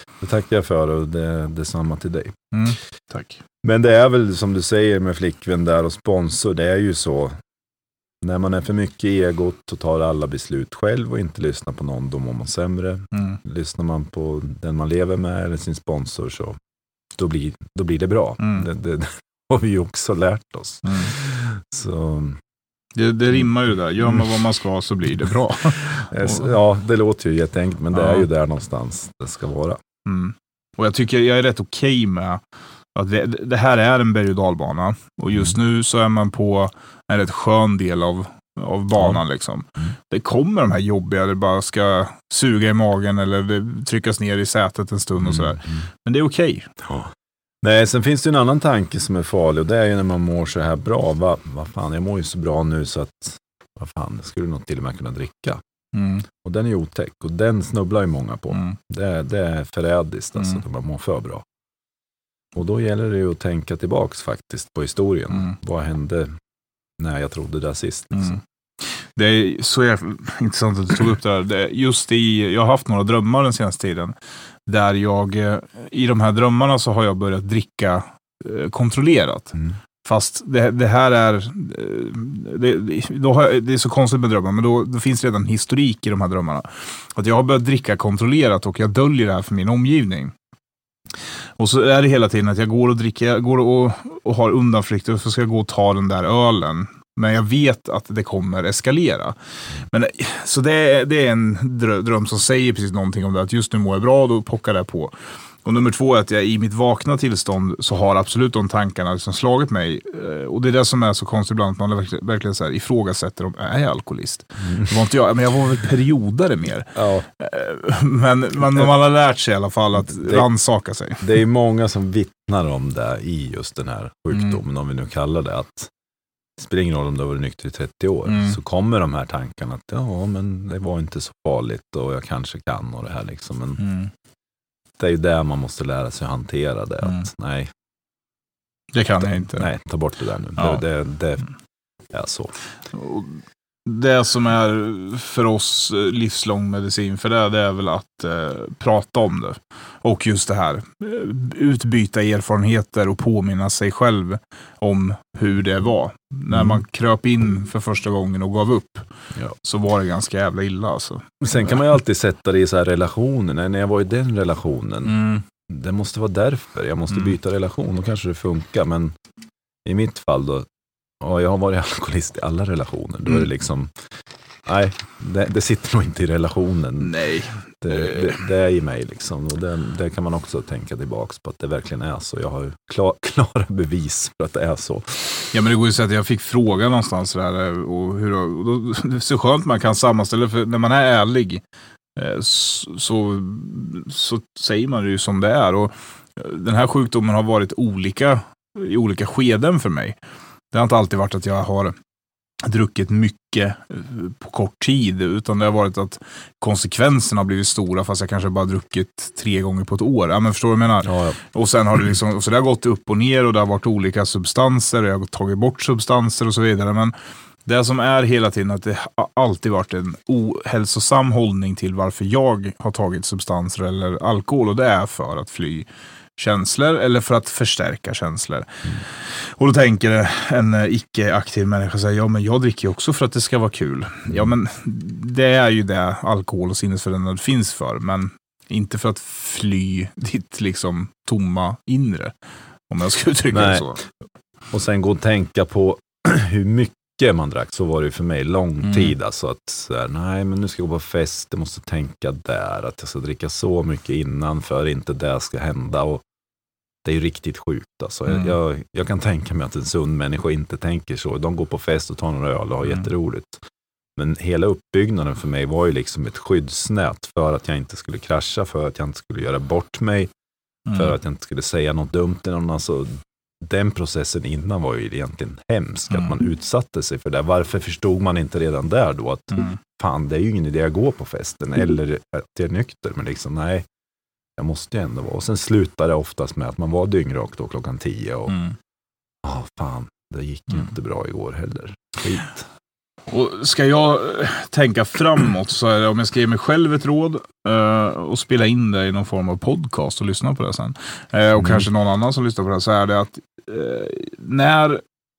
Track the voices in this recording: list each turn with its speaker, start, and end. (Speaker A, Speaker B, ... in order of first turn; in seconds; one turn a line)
Speaker A: 0.2-2.4
Speaker B: 2.5-3.4
Speaker A: 3.6-7.4
Speaker A: 8.2-16.6
Speaker B: 13.1-13.4
Speaker A: 17.2-22.4
Speaker B: 18.4-18.7
Speaker B: 20.9-21.1
Speaker B: 23.0-26.5
Speaker A: 25.8-29.8
Speaker B: 27.9-28.3
Speaker B: 30.1-32.4
Speaker B: 33.0-46.7
Speaker A: 45.2-45.9
Speaker A: 46.8-55.6
Speaker B: 55.9-56.3
Speaker A: 56.3-61.5
Speaker B: 58.5-58.8
Speaker A: 62.5-66.4
Speaker A: 67.0-68.4
Speaker B: 68.2-74.1
Speaker B: 74.7-90.3
Speaker B: 91.6-99.4
Speaker B: 99.9-121.3
Speaker A: 117.0-117.3
Speaker A: 120.1-120.5
Speaker A: 121.2-125.9
Speaker A: 126.6-133.8
Speaker B: 128.3-128.6
Speaker B: 133.8-134.1
Speaker A: 135.0-137.7
Speaker B: 137.0-137.3
Speaker B: 138.9-139.7
Speaker A: 139.2-141.4
Speaker B: 140.6-140.8
Speaker A: 142.1-142.6
Speaker B: 142.9-161.8
Speaker A: 156.5-156.8
Speaker A: 161.4-169.2
Speaker B: 165.1-165.4
Speaker A: 169.8-170.7
Speaker A: 171.2-173.9
Speaker A: 174.7-177.2
Speaker B: 177.0-178.4
Speaker A: 177.8-185.5
Speaker B: 185.5-191.6
Speaker B: 192.2-200.2
Speaker B: 200.7-201.9
Speaker B: 202.7-217.1
Speaker A: 211.1-211.4
Speaker B: 217.7-242.3
Speaker B: 242.9-244.0
Speaker A: 243.5-244.0
Speaker A: 244.7-256.2
Speaker B: 248.8-249.1
Speaker A: 257.0-263.6
Speaker A: 264.2-270.3
Speaker B: 270.9-271.1
Speaker A: 270.9-283.9
Speaker B: 279.5-279.8
Speaker A: 284.6-288.6
Speaker B: 288.5-288.8
Speaker A: 289.4-292.6
Speaker B: 293.3-305.0
Speaker A: 301.6-301.9